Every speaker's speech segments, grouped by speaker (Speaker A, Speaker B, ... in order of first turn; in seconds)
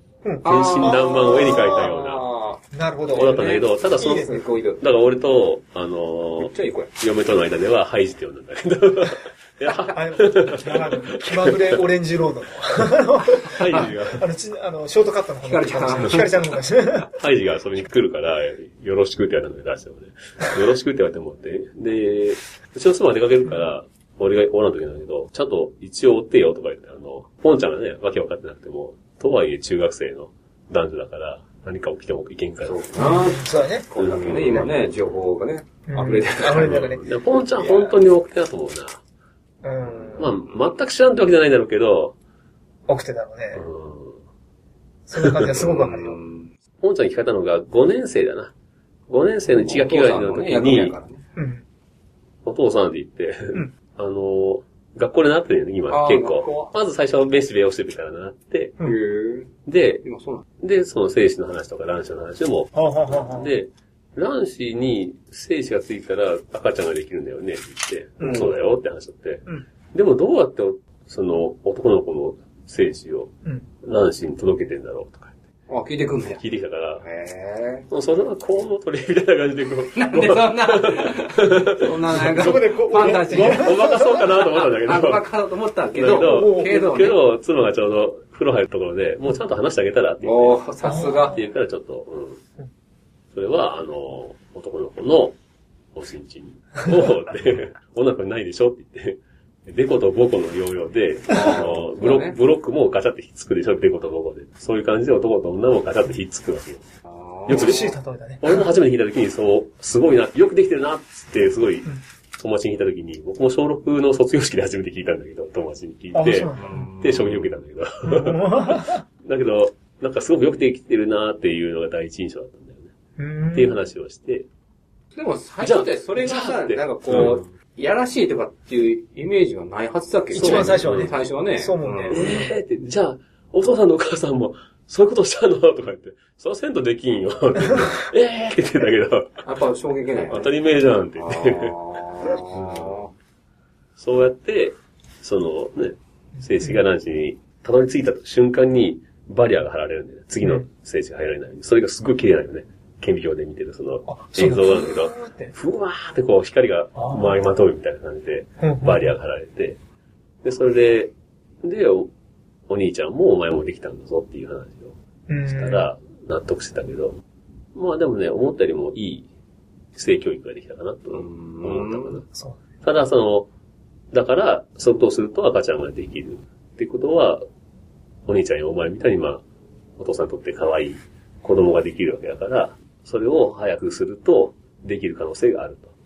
Speaker A: 0.2-1.8, 2.7-4.4, 9.8-17.1, 33.0-33.9, 35.9-38.0, 39.6-40.3, 42.9-43.7, 45.1-46.2, 51.4-51.6, 62.7-63.5, 68.2-68.5, 82.2-84.2, 86.1-86.7, 90.8-91.3, 107.5-108.6, 116.1-116.8, 118.0-119.0, 123.2-123.8, 130.3-132.5, 154.1-155.5, 157.0-157.4, 158.6-159.1, 165.3-165.9, 172.3-172.6
Speaker B: 0.4-2.3, 3.1-11.8, 13.4-14.2, 17.1-32.9, 34.0-34.8, 36.6-39.0, 40.2-42.1, 43.5-44.2, 45.2-45.6, 46.8-48.5, 49.1-51.0, 52.5-58.8, 59.7-60.0, 60.6-75.4, 76.4-77.0, 77.9-85.3, 85.9-92.4, 93.3-95.4, 95.9-106.9, 107.5-122.9, 123.5-124.5, 125.6-127.4, 130.3-131.1, 132.1-139.4, 140.3-141.8, 142.3-143.0, 144.0-159.8, 160.4-162.1, 162.7-164.9, 165.5-167.2, 167.8-169.3, 169.9-172.2, 172.8-173.5, 174.1-177.4, 178.3-179.4, 180.0-185.9
Speaker C: 0.4-4.8, 6.4-6.9, 15.4-16.4, 32.6-36.8, 40.0-40.3, 45.5-46.5, 49.5-51.2, 55.9-56.7, 58.8-60.5, 75.7-76.4, 77.0-77.9, 79.9-87.2, 90.2-91.4, 101.3-102.4, 107.1-107.9, 116.5-117.5, 125.2-132.3, 139.4-140.5, 141.2-143.1, 171.1-172.2